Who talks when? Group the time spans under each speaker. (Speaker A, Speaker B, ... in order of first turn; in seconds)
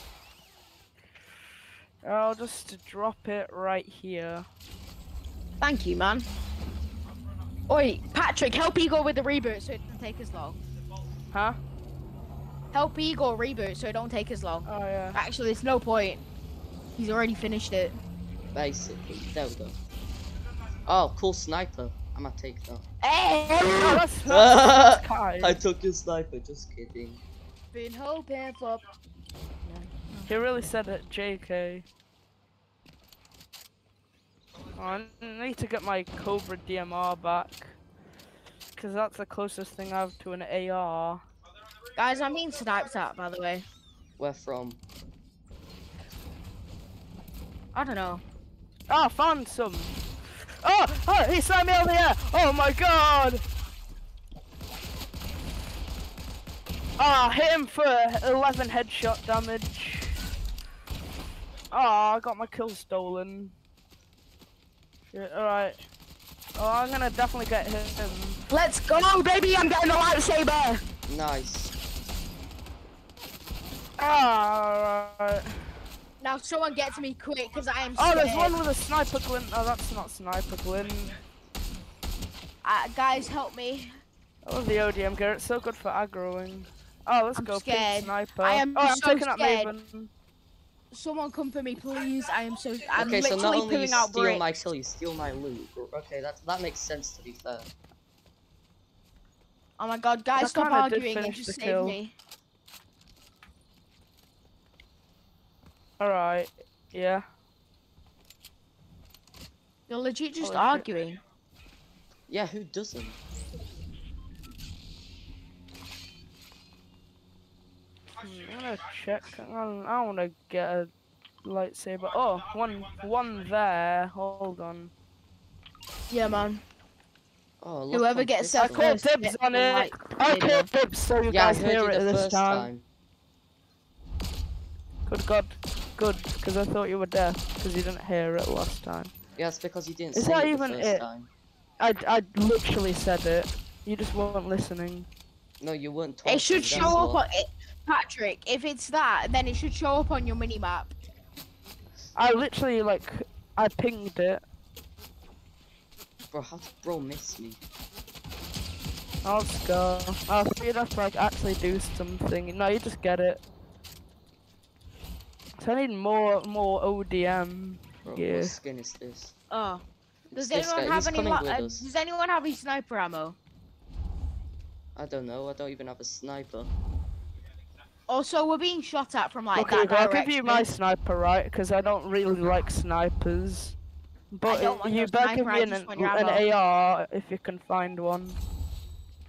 Speaker A: 2.0-4.5, 11.3-11.6, 14.7-15.2, 23.7-25.6, 30.3-31.9, 34.8-37.8, 38.8-41.2, 48.9-49.9, 50.6-53.4, 57.0-60.1, 61.7-63.5, 65.1-65.8, 66.6-68.4, 74.0-75.7, 78.0-81.2, 84.5-90.1, 100.4-102.0, 106.0-107.2, 110.4-110.8, 118.2-120.9, 121.4-124.9, 128.6-132.7, 135.1-139.1, 140.2-141.1, 141.8-145.1, 152.2-154.4, 159.2-163.4, 165.6-168.6, 179.6-183.8, 184.3-188.4
Speaker B: 5.6-6.3, 7.7-10.6, 12.7-16.2, 17.0-18.0, 23.0-24.0, 27.7-28.9, 29.6-30.3, 42.0-43.7, 47.7-48.2, 68.5-70.8, 76.2-78.6, 82.6-83.9, 87.4-89.7, 90.9-94.5, 99.8-102.1, 109.9-111.2, 126.1-126.6, 127.9-130.7, 146.3-150.9, 169.5-169.8, 170.3-173.4, 178.1-180.7, 184.5-186.4
Speaker C: 18.5-19.8, 20.9-22.8, 24.2-27.2, 44.2-44.8, 71.1-71.7, 93.0-97.7, 112.3-113.2, 127.6-128.9, 131.3-132.8, 139.4-141.3, 145.6-147.2, 156.3-157.6, 168.1-169.3, 170.3-171.9, 175.0-176.7